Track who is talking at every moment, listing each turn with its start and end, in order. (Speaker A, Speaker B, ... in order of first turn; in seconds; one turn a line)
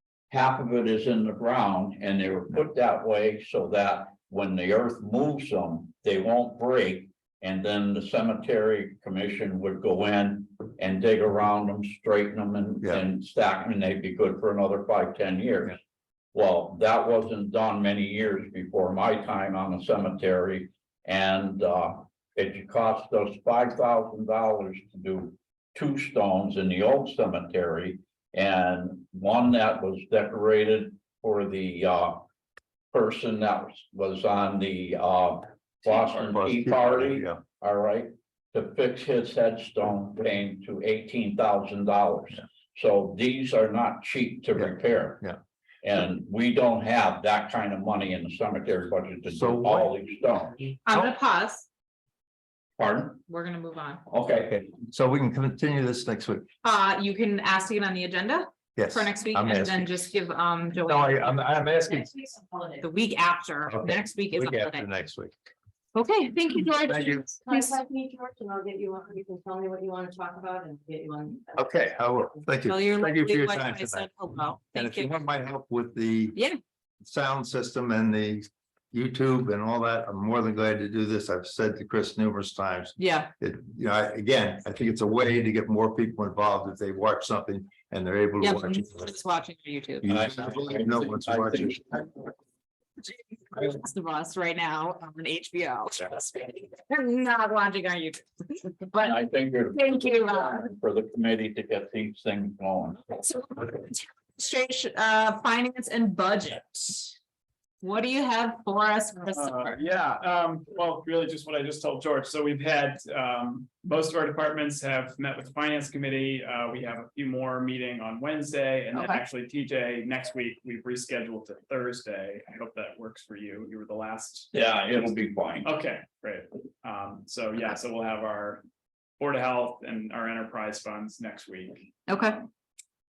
Speaker A: 0.3-15.8
Speaker A: 16.3-32.2
Speaker A: 32.9-45.2
Speaker B: 36.3-37.4
Speaker A: 45.8-50.8
Speaker B: 49.3-49.9
Speaker C: 50.9-51.7
Speaker A: 52.8-53.2
Speaker C: 53.3-54.0
Speaker A: 54.1-54.8
Speaker B: 54.7-56.5
Speaker C: 56.6-61.4
Speaker B: 58.8-60.0
Speaker B: 60.9-62.2
Speaker D: 62.2-62.8
Speaker C: 62.8-64.9
Speaker B: 63.7-65.3
Speaker C: 66.0-67.8
Speaker B: 66.9-67.4
Speaker D: 67.4-71.6
Speaker B: 71.6-74.1
Speaker C: 72.7-75.1
Speaker B: 74.6-76.4
Speaker B: 77.0-89.1
Speaker C: 83.0-83.3
Speaker C: 88.4-90.1
Speaker B: 90.0-91.8
Speaker A: 90.1-92.3
Speaker C: 93.0-99.2
Speaker A: 99.0-103.0
Speaker C: 99.7-100.7
Speaker C: 103.1-107.2
Speaker C: 107.8-109.8
Speaker E: 109.3-128.6
Speaker C: 118.9-119.2
Speaker A: 124.5-125.7
Speaker E: 129.2-132.5
Speaker C: 132.1-132.4